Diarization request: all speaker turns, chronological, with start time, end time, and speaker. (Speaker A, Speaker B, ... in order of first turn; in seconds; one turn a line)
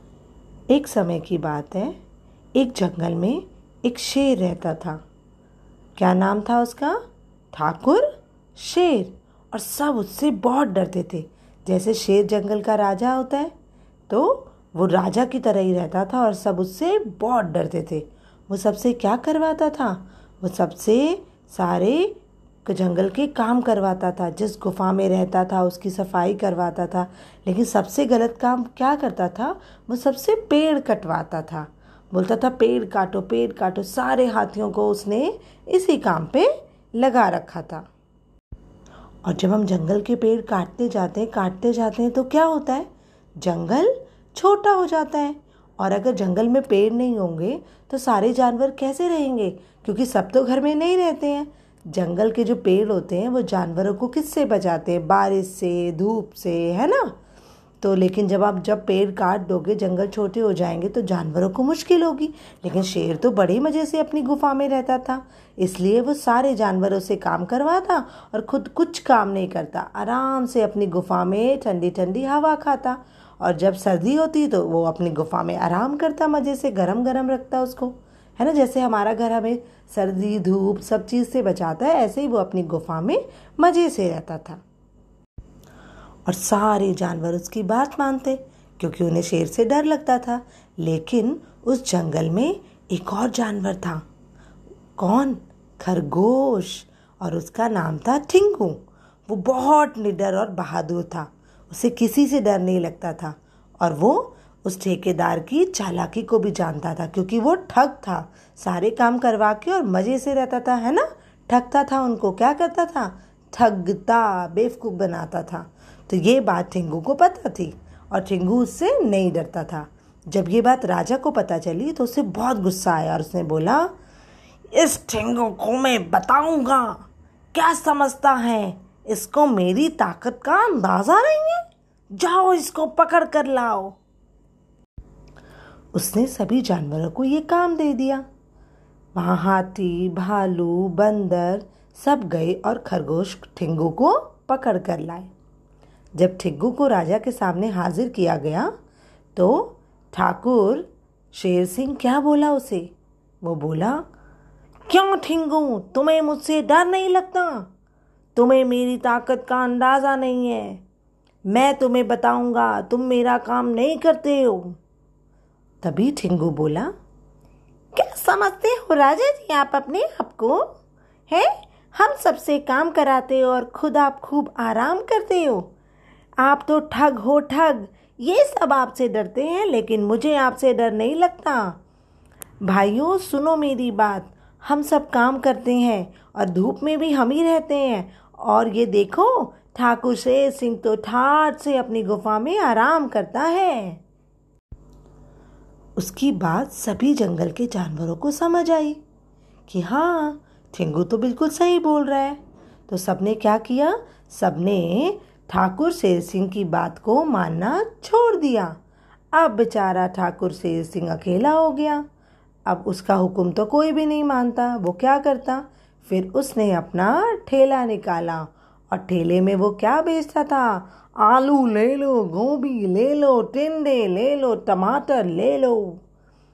Speaker A: 0.7-2.0
Speaker A: 2.6-5.0
Speaker A: 6.0-7.0
Speaker A: 7.5-13.5
Speaker A: 14.1-37.9
Speaker A: 39.2-57.2
Speaker A: 57.8-84.6
Speaker A: 86.3-94.0
Speaker A: 95.0-123.9
Speaker A: 124.7-134.0
Speaker A: 135.9-138.2
Speaker A: 139.2-145.3
Speaker A: 146.2-148.7
Speaker A: 149.3-152.9
Speaker A: 153.4-154.1
Speaker A: 154.9-157.7
Speaker A: 158.3-160.8
Speaker A: 161.5-164.8
Speaker A: 165.8-166.9
Speaker A: 167.9-170.7
Speaker A: 171.3-175.7
Speaker A: 176.4-181.8
Speaker A: 182.6-194.0
Speaker A: 196.0-199.0
Speaker A: 199.7-208.8
Speaker A: 209.3-212.1
Speaker A: 212.7-226.0